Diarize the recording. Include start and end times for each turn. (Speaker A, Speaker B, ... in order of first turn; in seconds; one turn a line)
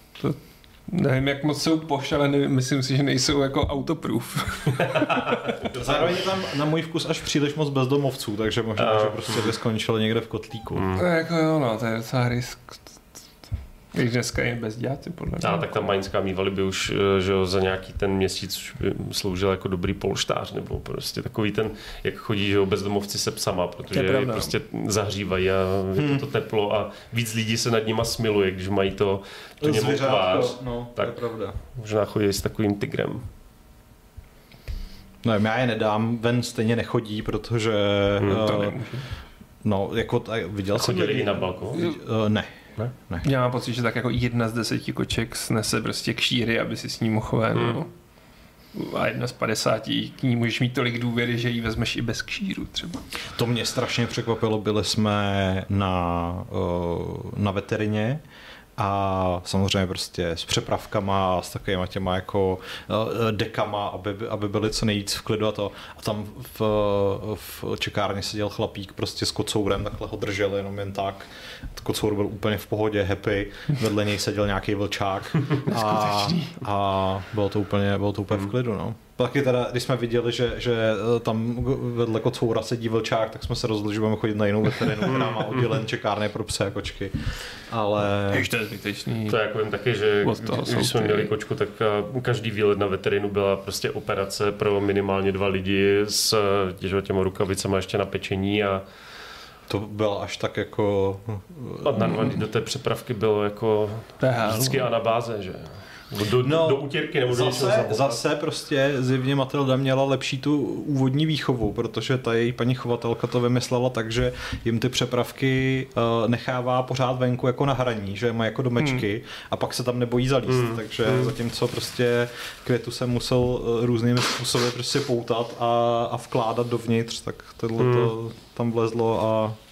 Speaker A: 0.1-5.5
Speaker B: 5.6-6.1
Speaker C: 5.7-10.9
Speaker B: 8.8-9.5
Speaker B: 10.7-11.1
Speaker A: 10.9-12.9
Speaker A: 13.9-15.9
Speaker B: 15.4-33.2
Speaker A: 23.9-24.5
Speaker C: 25.9-26.2
Speaker C: 29.6-31.5
Speaker C: 35.2-38.8
Speaker B: 38.2-38.5
Speaker A: 38.4-39.0
Speaker C: 39.6-43.2
Speaker B: 40.7-41.9
Speaker A: 43.2-47.9
Speaker B: 47.5-47.8
Speaker A: 48.7-53.0
Speaker C: 53.3-58.2
Speaker C: 58.8-88.5
Speaker A: 75.7-76.6
Speaker B: 85.0-85.8
Speaker A: 88.3-89.4
Speaker B: 89.2-98.8
Speaker A: 90.2-91.3
Speaker C: 99.7-102.4
Speaker B: 101.8-108.2
Speaker A: 104.2-104.9
Speaker C: 106.4-129.6
Speaker A: 118.8-119.0
Speaker B: 120.5-121.3
Speaker B: 127.8-128.1